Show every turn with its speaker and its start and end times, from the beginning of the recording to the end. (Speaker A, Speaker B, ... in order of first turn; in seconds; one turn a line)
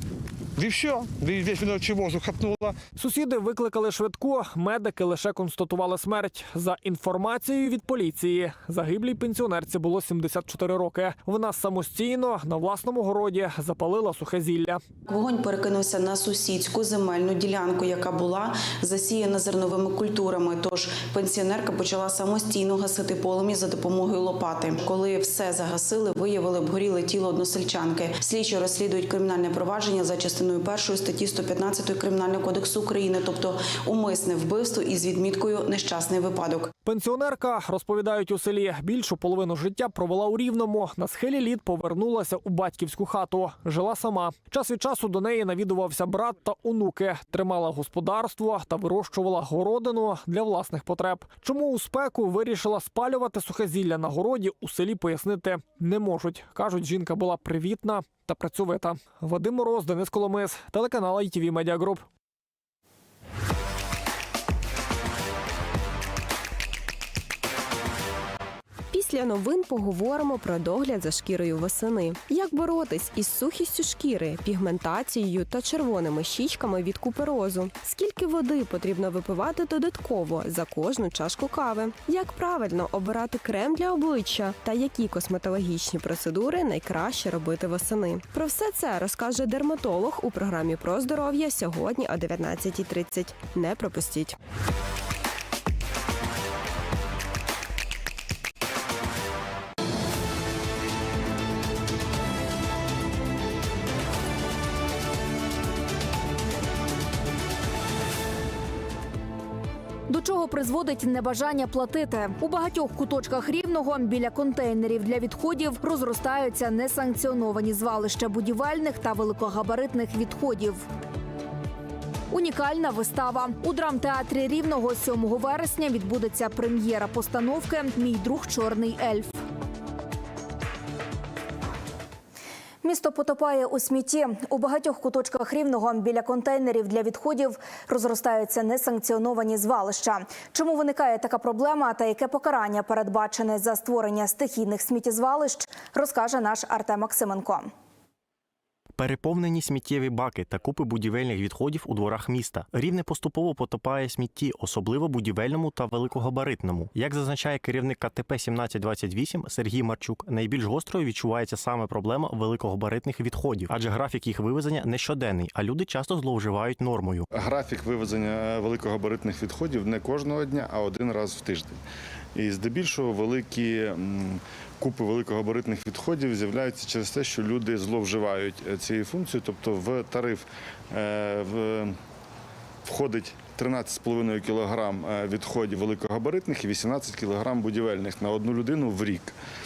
Speaker A: 0.6-2.8
Speaker B: 3.0-14.8
Speaker C: 15.1-36.7
Speaker B: 36.9-62.1
Speaker D: 68.9-94.3
Speaker E: 110.1-120.9
Speaker E: 122.3-129.4
Speaker E: 132.8-147.7
Speaker F: 149.0-167.2
Speaker G: 167.3-171.8
Speaker G: 172.4-181.9
Speaker G: 182.8-189.3